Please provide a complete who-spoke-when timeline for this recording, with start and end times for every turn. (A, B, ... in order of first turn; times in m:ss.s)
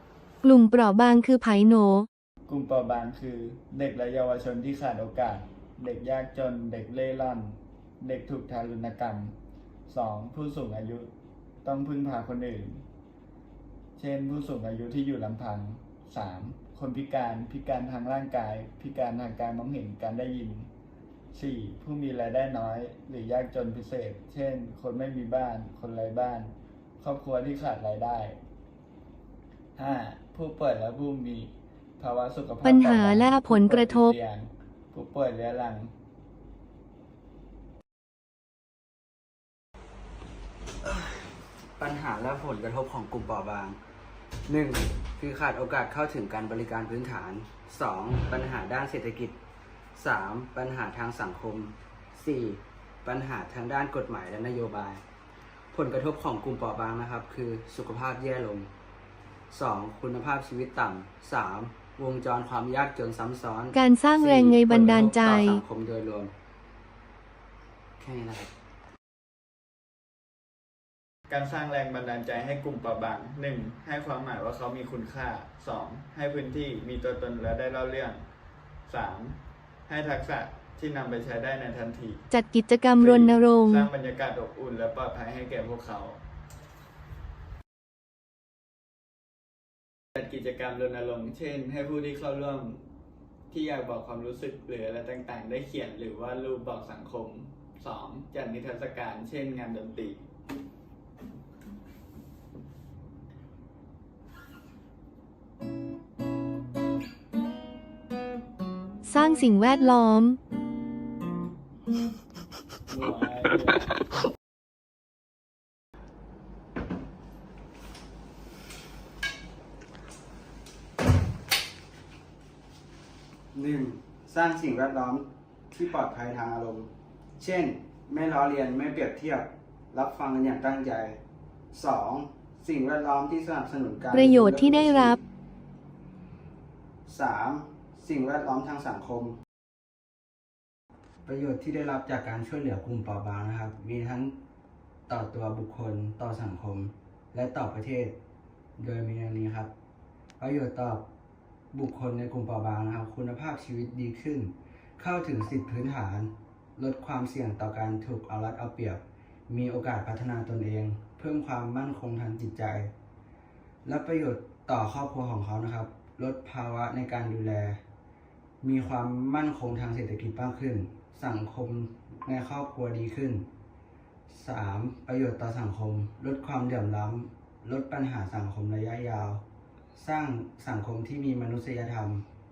0:00.4-0:02.1 A
0:02.5-0:09.3 B
0:09.9-0:11.1 B
0:11.6-0:12.8 B
0:14.0-0:20.7 B
0:21.3-0:28.4 B
0:29.8-0:35.9 B
0:32.6-0:34.1 A
0:40.8-0:41.2 C
0:41.8-0:43.8 C
0:44.4-0:49.4 C
0:49.9-0:55.0 C
0:55.7-0:58.7 C
0:59.5-1:06.3 C
1:03.7-1:05.6 A
1:08.0-1:08.5 C
1:11.3-1:18.2 B
1:18.9-1:22.2 B
1:22.3-1:23.9 A
1:23.0-1:26.2 B
1:30.2-1:32.8 B
1:33.5-1:40.2 B
1:49.0-1:50.4 A
1:52.9-1:53.9 B
2:03.5-2:11.2 C
2:11.7-2:15.2 C
2:14.1-2:15.2 A
2:17.0-2:19.4 C
2:21.2-2:24.3 C
2:25.1-2:28.2 C
2:28.8-2:29.7 C
2:30.4-2:31.0 C
2:31.7-2:42.9 C
2:43.8-2:47.8 C
2:48.6-2:53.4 C
2:54.3-2:59.4 C
2:59.9-3:02.2 C